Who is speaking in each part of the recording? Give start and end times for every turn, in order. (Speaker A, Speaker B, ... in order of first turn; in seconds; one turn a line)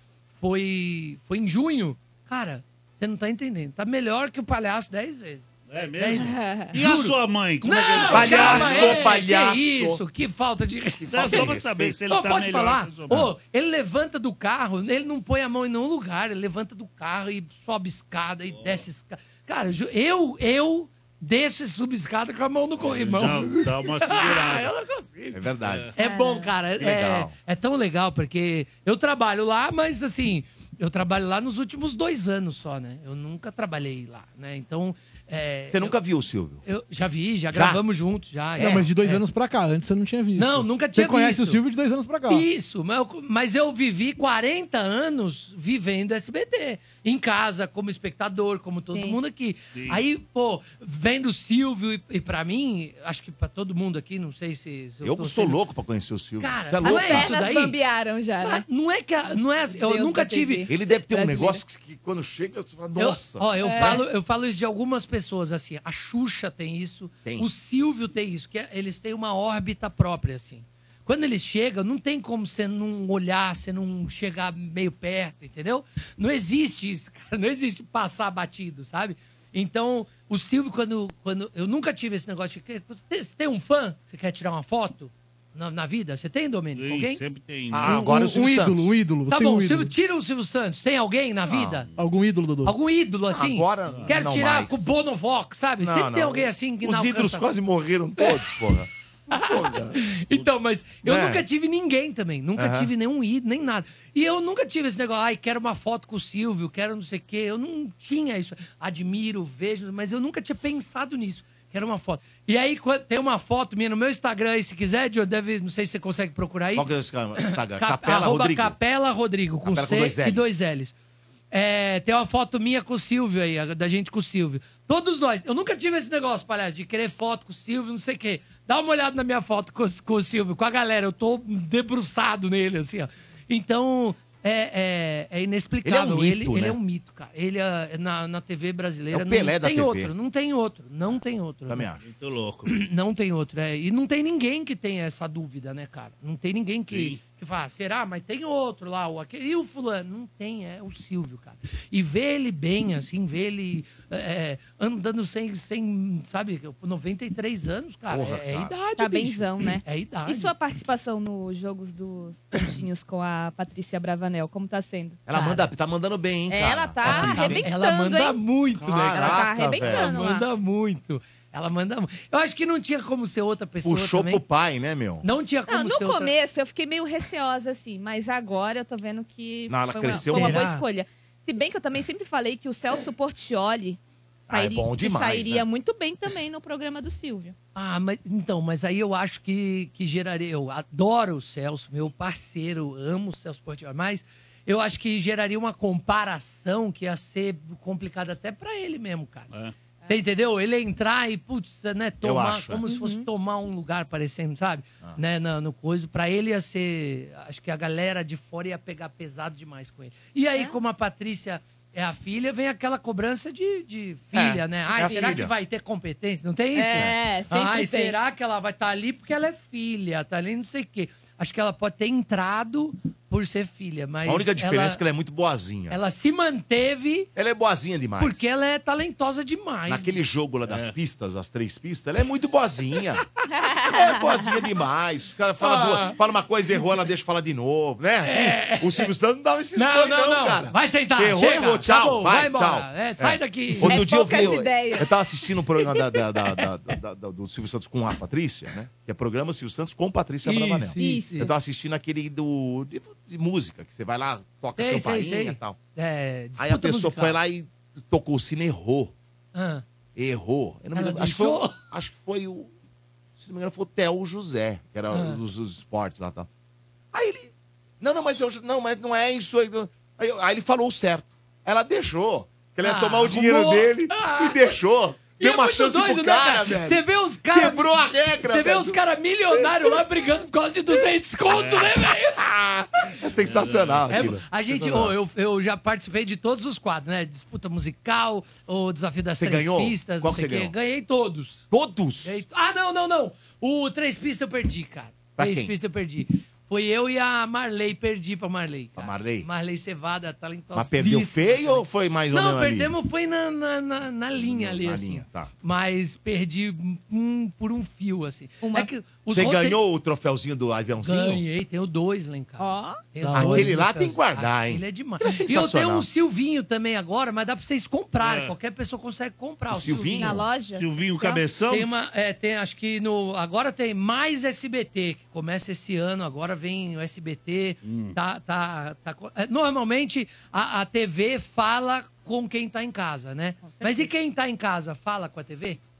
Speaker A: 0.4-11.6
Speaker B: 5.7-9.2
Speaker C: 6.1-6.7
Speaker D: 8.1-10.0
Speaker D: 11.1-12.0
Speaker B: 11.1-13.3
Speaker A: 12.1-25.3
Speaker B: 18.5-18.8
Speaker B: 22.8-24.7
Speaker D: 25.3-25.9
Speaker B: 25.4-25.9
Speaker A: 25.9-36.0
Speaker C: 26.0-26.5
Speaker D: 26.8-27.3
Speaker D: 35.7-36.6
Speaker A: 36.6-39.2
Speaker D: 37.5-37.8
Speaker E: 38.6-42.5
Speaker A: 40.4-41.6
Speaker A: 42.3-55.6
Speaker C: 48.9-49.2
Speaker B: 49.7-50.0
Speaker D: 55.0-57.4
Speaker A: 56.4-57.8
Speaker C: 56.8-58.6
Speaker A: 58.4-60.7
Speaker C: 59.3-61.6
Speaker D: 60.7-64.0
Speaker A: 63.0-87.2
Speaker C: 63.6-64.0
Speaker D: 67.2-67.5
Speaker B: 86.8-88.0
Speaker D: 87.7-88.9
Speaker E: 87.8-89.9
Speaker A: 89.3-91.9
Speaker D: 91.5-91.8
Speaker E: 92.0-92.8
Speaker A: 92.6-97.5
Speaker D: 93.3-94.9
Speaker B: 93.9-94.2
Speaker D: 95.8-98.9
Speaker A: 98.2-98.5
Speaker A: 99.3-121.0
Speaker D: 99.4-100.0
Speaker D: 101.0-101.4
Speaker D: 102.6-102.9
Speaker D: 116.7-118.8
Speaker D: 119.6-120.6
Speaker A: 121.5-141.9
Speaker D: 135.8-136.8
Speaker D: 139.1-140.1
Speaker D: 141.7-142.0
Speaker B: 142.0-142.7
Speaker A: 142.7-160.5
Speaker B: 146.9-147.2
Speaker D: 158.1-158.7
Speaker C: 159.0-165.2
Speaker D: 165.3-167.7
Speaker A: 165.3-165.7
Speaker C: 166.5-168.4
Speaker A: 167.0-174.4
Speaker D: 168.7-170.2
Speaker C: 169.2-170.5
Speaker D: 173.8-175.2
Speaker A: 175.2-176.3
Speaker C: 175.7-184.0
Speaker D: 179.7-180.7
Speaker A: 180.1-180.8
Speaker D: 184.5-185.6
Speaker C: 184.5-187.5
Speaker A: 187.7-199.5
Speaker A: 200.1-225.0
Speaker D: 202.2-202.8
Speaker C: 202.9-203.3
Speaker D: 214.3-215.5
Speaker C: 215.0-215.4
Speaker C: 216.7-218.2
Speaker D: 224.2-226.0
Speaker A: 225.9-227.3
Speaker D: 227.3-228.4
Speaker A: 228.2-230.2
Speaker D: 229.9-233.2
Speaker B: 230.7-230.9
Speaker C: 233.6-233.9
Speaker D: 233.8-255.8
Speaker A: 235.6-236.1
Speaker A: 238.2-239.1
Speaker A: 239.7-244.5
Speaker C: 243.8-245.1
Speaker A: 250.4-251.5
Speaker C: 251.0-251.5
Speaker A: 254.8-257.4
Speaker D: 256.6-259.1
Speaker A: 259.5-259.8
Speaker D: 260.1-262.7
Speaker A: 260.9-261.8
Speaker D: 263.4-266.5
Speaker A: 265.1-265.4
Speaker D: 267.1-279.0
Speaker A: 272.8-274.7
Speaker A: 275.4-282.9
Speaker B: 281.5-282.1
Speaker D: 283.2-285.1
Speaker B: 283.2-284.4
Speaker A: 284.1-291.7
Speaker D: 289.4-290.7
Speaker D: 291.7-292.4
Speaker A: 292.2-309.8
Speaker D: 295.4-295.7
Speaker D: 298.9-299.5
Speaker D: 300.7-303.0
Speaker D: 304.3-305.5
Speaker C: 308.6-308.9
Speaker D: 309.3-311.4
Speaker A: 311.0-320.4
Speaker C: 312.6-313.0
Speaker E: 313.2-313.8
Speaker D: 313.4-316.1
Speaker B: 318.2-318.5
Speaker D: 319.7-320.4
Speaker C: 320.2-321.4
Speaker B: 320.7-321.9
Speaker A: 321.7-335.8
Speaker B: 327.8-328.1
Speaker C: 333.6-334.1